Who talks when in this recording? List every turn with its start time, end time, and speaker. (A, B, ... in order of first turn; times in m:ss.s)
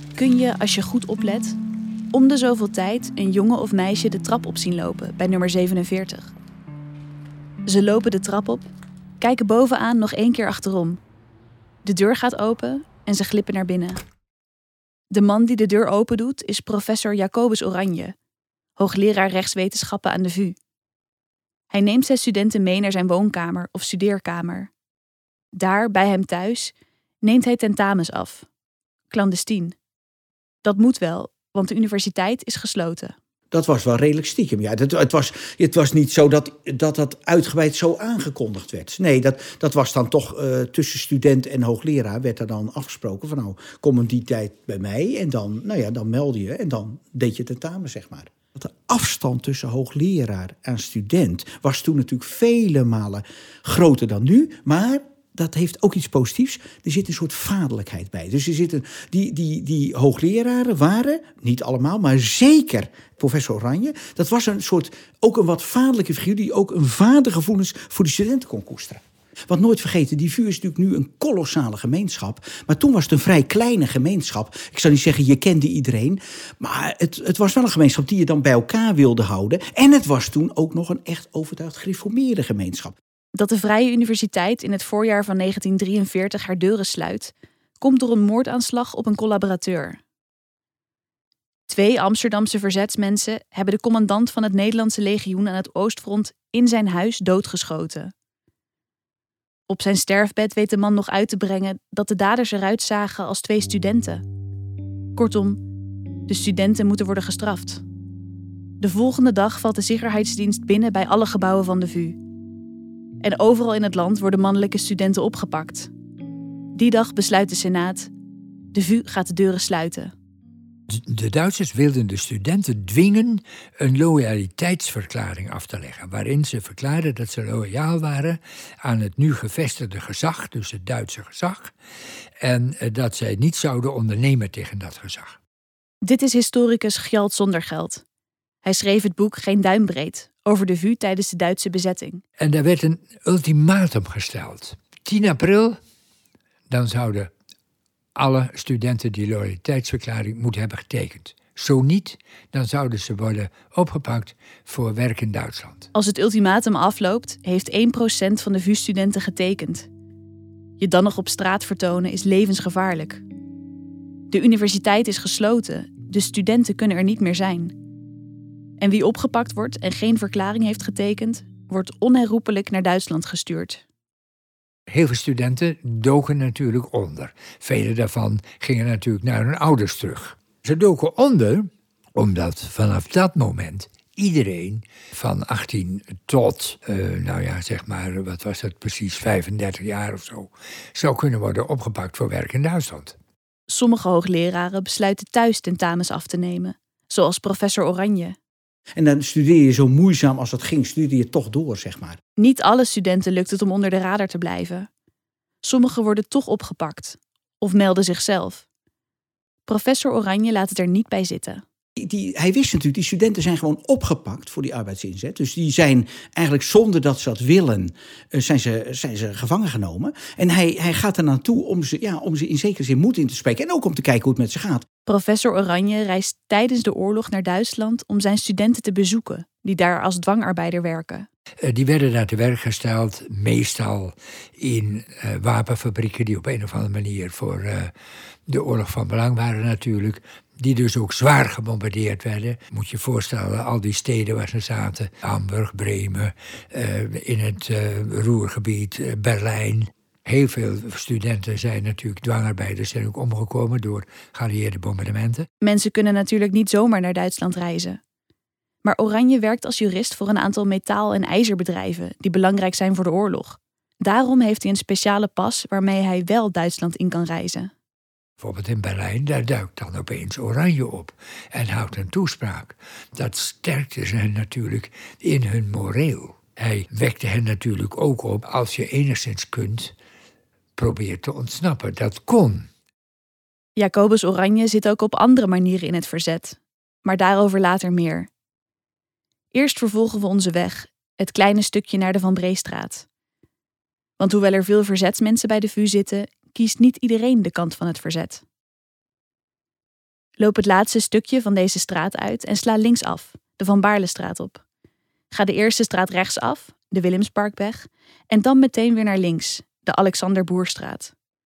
0:00.2-0:01.6 A
0:02.1-0:06.3 A
0:07.7-0:08.7 A
0:09.2-0:11.0 A
0:11.8-0:14.0 A
0:15.1-0:18.1 A
0:18.8-0:20.6 A
0:21.7-0:24.7 A
0:25.5-0:28.5 A
0:29.1-0:29.8 A
0:30.6-0:33.2 A
0:33.5-1:23.0 B
1:23.4-1:30.0 A
1:31.7-1:38.1 A
1:39.7-1:44.2 A
1:45.2-1:45.6 A
1:46.3-1:47.8 A
1:48.8-1:52.2 A
1:53.2-1:55.9 A
1:56.8-1:58.1 A
1:58.7-2:00.1 A
2:00.9-2:11.7 C
2:12.4-2:15.4 C
2:16.0-2:18.0 A
2:18.6-2:22.2 A
2:22.4-2:25.8 C
2:26.7-2:27.3 C
2:28.2-2:35.9 C
2:35.9-2:39.9 A
2:40.8-2:43.2 A
2:44.3-2:47.8 A
2:48.8-2:53.8 A
2:54.9-3:13.2 C
3:13.7-3:18.4 A
3:19.0-3:22.2 B
3:22.4-3:24.9 A
3:25.6-3:28.7 A
3:29.7-3:31.6 A
3:32.0-3:44.8 B
3:45.1-3:51.3 A
3:51.6-3:57.9 C
3:58.5-4:15.5 C
4:15.6-4:18.0 A
4:18.8-4:27.7 A
4:28.4-4:40.0 C
4:40.8-4:42.7 C
4:43.8-4:48.3 A
4:49.5-4:53.1 A
4:54.2-4:58.4 A
5:00.4-5:04.6 A
5:05.3-5:11.1 A